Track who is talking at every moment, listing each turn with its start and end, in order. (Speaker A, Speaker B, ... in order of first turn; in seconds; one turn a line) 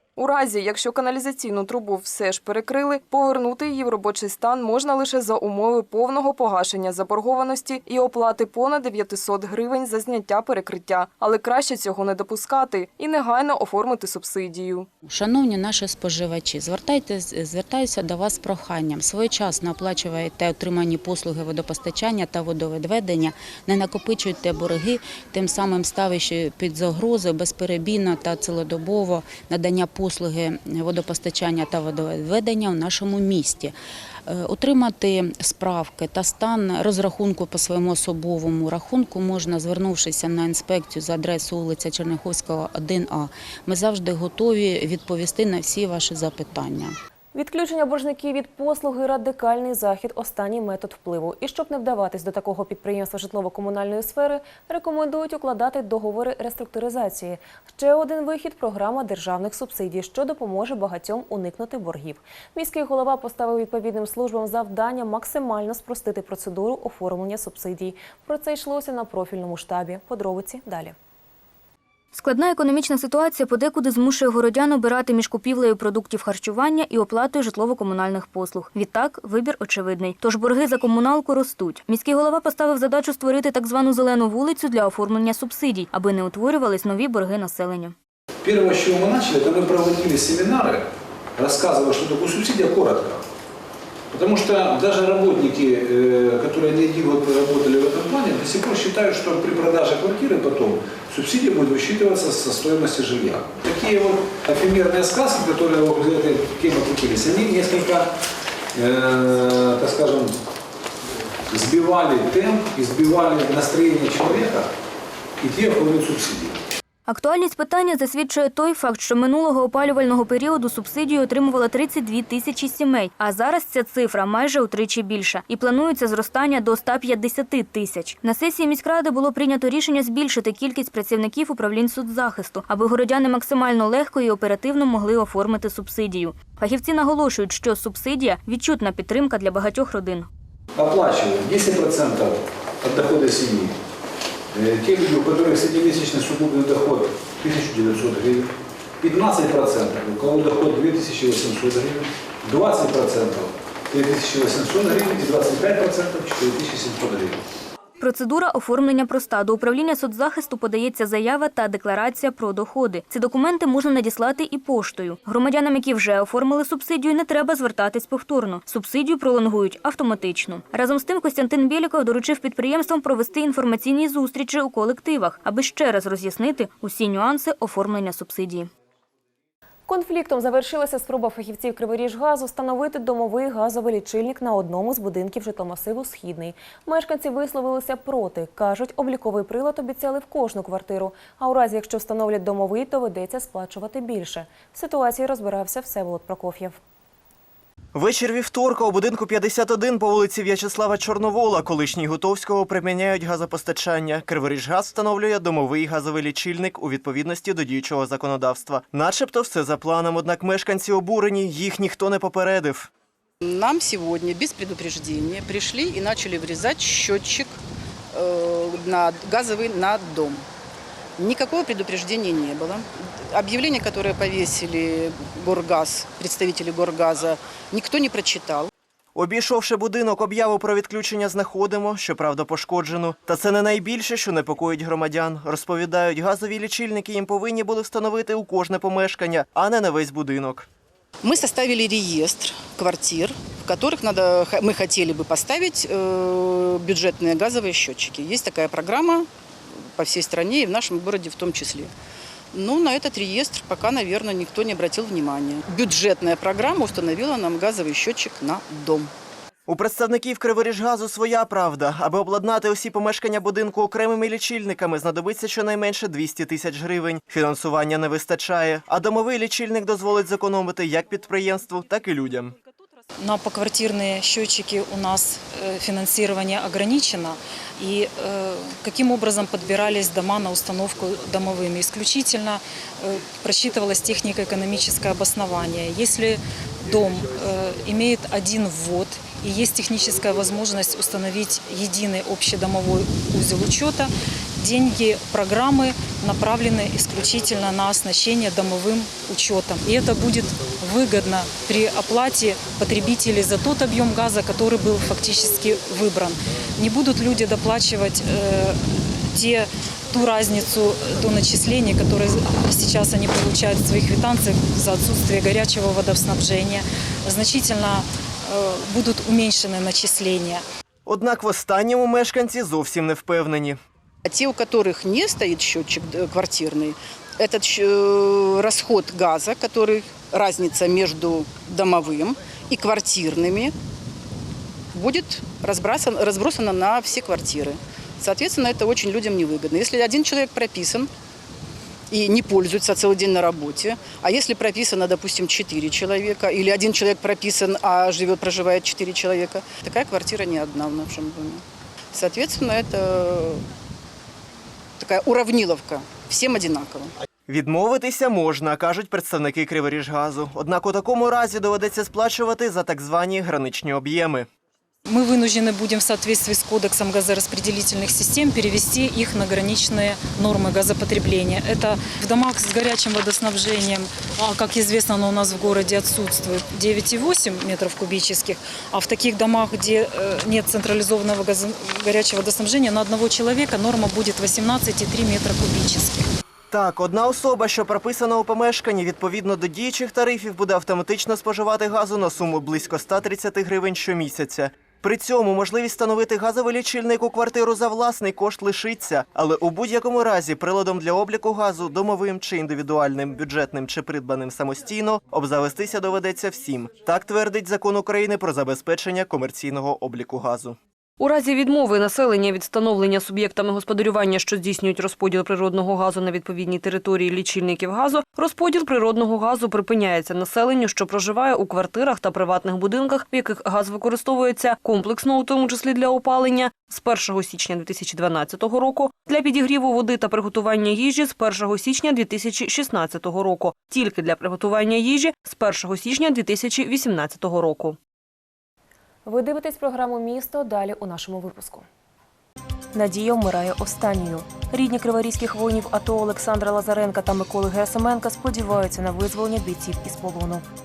Speaker A: 0.2-14.9
Speaker B: 15.1-33.7
Speaker B: 34.3-46.9
Speaker C: 47.3-70.9
Speaker D: 72.1-87.9
Speaker E: 88.4-93.2
Speaker E: 94.1-108.1
Speaker E: 108.7-110.3
Speaker E: 111.5-114.7
Speaker E: 115.4-116.6
Speaker D: 117.1-140.3
Speaker E: 140.8-143.8
Speaker E: 144.5-148.5
Speaker E: 149.0-157.4
Speaker D: 158.0-178.7
Speaker C: 179.9-196.8
Speaker F: 197.9-212.9
Speaker G: 213.4-217.6
Speaker G: 218.1-220.4
Speaker G: 221.2-228.7
Speaker F: 229.2-240.7
Speaker G: 241.2-249.3
Speaker G: 249.9-251.9
Speaker G: 252.5-259.1
Speaker F: 259.7-272.6
Speaker H: 273.2-320.6
Speaker F: 321.1-323.8
Speaker G: 324.2-333.7
Speaker G: 334.9-341.1
Speaker G: 342.1-353.6
Speaker G: 355.0-357.1
Speaker F: 357.5-364.5
Speaker H: 365.1-386.3
Speaker F: 386.7-410.8
Speaker I: 411.2-438.0
Speaker C: 439.3-441.9
Speaker C: 442.9-450.7